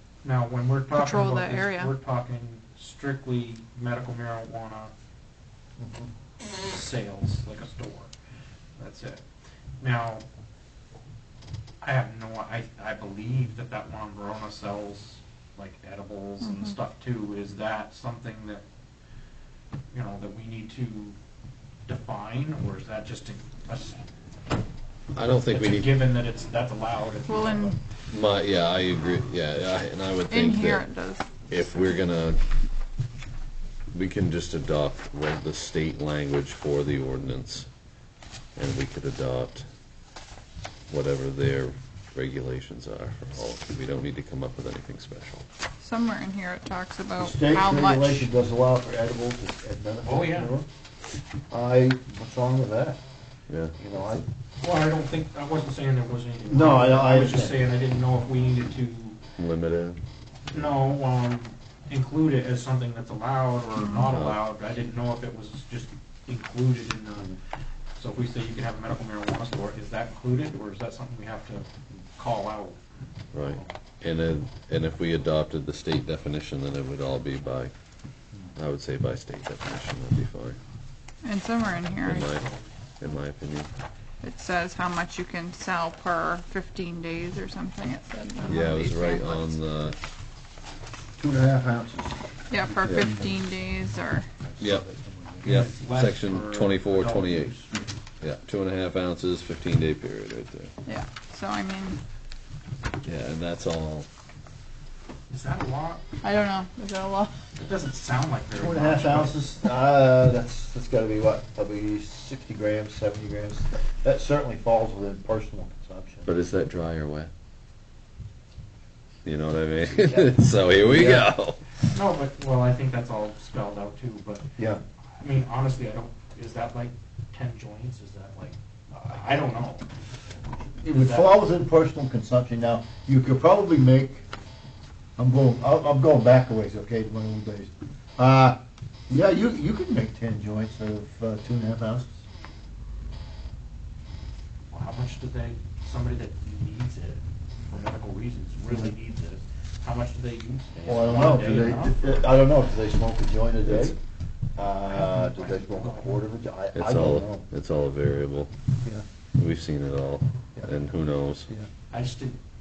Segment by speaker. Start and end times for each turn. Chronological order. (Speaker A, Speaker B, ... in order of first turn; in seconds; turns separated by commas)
Speaker A: 0.2-4.9, Speaker B: 0.9-1.9, Speaker C: 5.8-6.1, Speaker A: 6.6-8.1, Speaker A: 8.8-9.2, Speaker A: 9.8-10.2, Speaker A: 11.8-18.6, Speaker A: 19.9-21.1, Speaker A: 21.9-24.0, Speaker D: 25.1-25.9, Speaker A: 25.5-27.8, Speaker B: 27.3-27.8, Speaker D: 28.1-30.9, Speaker B: 30.3-32.0, Speaker D: 31.5-32.4, Speaker D: 33.9-37.7, Speaker D: 38.5-39.6, Speaker D: 40.9-45.4, Speaker B: 45.8-48.3, Speaker C: 47.2-50.7, Speaker A: 50.0-50.5, Speaker C: 51.5-53.0, Speaker D: 53.5-54.2, Speaker C: 53.8-54.2, Speaker A: 54.6-59.2, Speaker C: 56.5-57.6, Speaker D: 59.4-60.0, Speaker A: 60.5-67.4, Speaker D: 64.1-64.4, Speaker A: 68.0-72.8, Speaker D: 73.3-77.7, Speaker D: 78.5-80.6, Speaker B: 81.2-82.4, Speaker D: 82.0-82.4, Speaker A: 82.0-82.7, Speaker D: 83.0-83.7, Speaker B: 84.2-89.6, Speaker D: 88.5-90.0, Speaker C: 91.2-93.4, Speaker B: 92.5-94.3, Speaker D: 92.8-93.2, Speaker C: 94.4-95.5, Speaker D: 94.6-94.8, Speaker D: 95.4-97.6, Speaker A: 95.4-97.7, Speaker D: 98.2-100.7, Speaker B: 100.8-102.0, Speaker D: 103.0-104.0, Speaker A: 105.3-106.1, Speaker B: 106.2-107.3, Speaker A: 107.5-109.4, Speaker C: 108.5-116.3, Speaker D: 116.2-117.3, Speaker D: 119.2-121.6, Speaker C: 119.9-121.3, Speaker A: 121.9-124.4, Speaker A: 125.2-129.8, Speaker C: 130.8-134.2, Speaker A: 130.9-131.3, Speaker C: 135.2-142.1, Speaker A: 144.7-152.2, Speaker C: 150.8-154.0, Speaker C: 154.6-157.5, Speaker A: 154.8-156.2, Speaker D: 156.7-158.5, Speaker D: 159.4-161.5, Speaker A: 161.9-162.4